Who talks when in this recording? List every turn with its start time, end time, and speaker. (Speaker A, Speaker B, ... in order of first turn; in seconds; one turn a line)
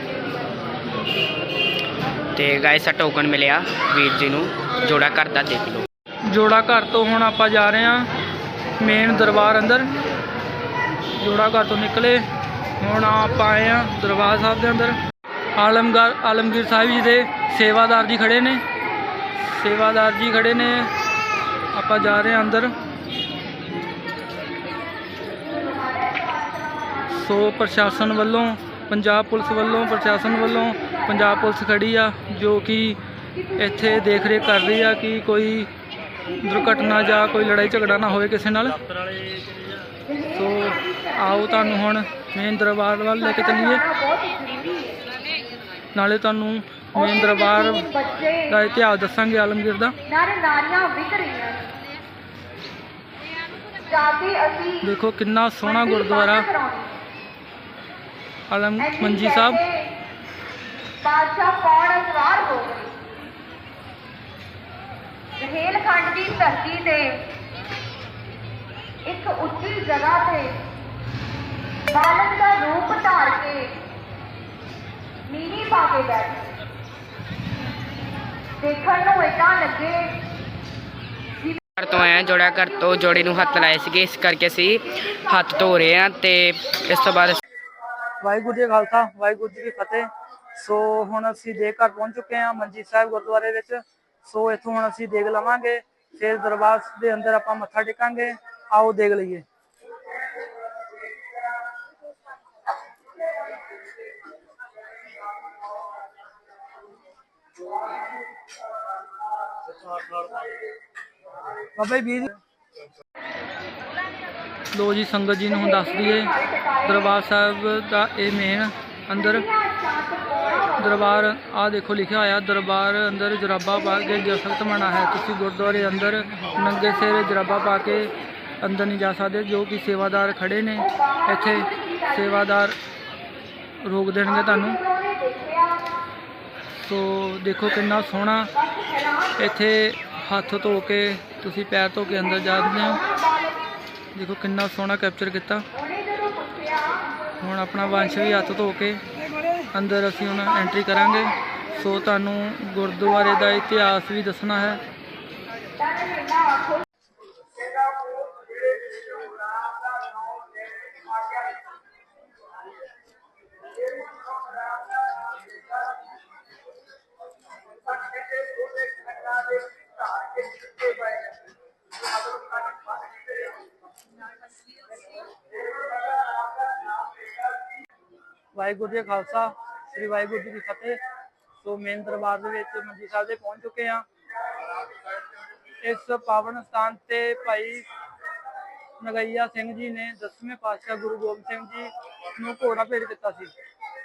Speaker A: 2.3-5.9
Speaker B: 6.3-8.1
Speaker B: 8.8-9.9
Speaker B: 11.2-12.2
Speaker B: 12.8-15.0
Speaker B: 15.6-18.6
Speaker B: 19.4-20.9
Speaker B: 21.7-22.7
Speaker C: 25.4-27.1
Speaker B: 27.1-33.0
Speaker B: 33.6-35.7
Speaker B: 36.4-39.8
Speaker C: 40.1-41.8
Speaker B: 40.3-43.8
Speaker C: 43.2-45.0
Speaker B: 45.9-47.9
Speaker C: 46.9-48.6
Speaker B: 48.5-50.0
Speaker C: 50.0-51.7
Speaker C: 53.9-54.9
Speaker B: 54.8-56.5
Speaker C: 55.6-57.0
Speaker B: 58.5-59.6
Speaker C: 58.8-59.9
Speaker C: 61.0-63.0
Speaker C: 65.4-67.2
Speaker C: 69.0-70.5
Speaker C: 71.9-73.7
Speaker C: 75.2-76.5
Speaker C: 78.6-80.2
Speaker A: 81.8-87.4
Speaker C: 84.9-85.3
Speaker B: 88.2-99.4
Speaker B: 111.8-112.4
Speaker B: 114.7-116.3
Speaker C: 115.5-117.1
Speaker B: 116.8-119.5
Speaker C: 119.2-121.1
Speaker B: 120.8-132.8
Speaker C: 130.8-132.4
Speaker B: 133.8-134.8
Speaker C: 134.3-135.8
Speaker B: 136.7-138.5
Speaker C: 138.6-139.4
Speaker B: 139.4-143.0
Speaker C: 143.0-143.6
Speaker B: 144.1-145.6
Speaker C: 145.7-147.1
Speaker B: 147.4-149.0
Speaker B: 149.7-154.8
Speaker C: 155.8-156.8
Speaker B: 178.5-181.0
Speaker B: 181.6-184.0
Speaker B: 185.8-187.8
Speaker B: 189.0-193.5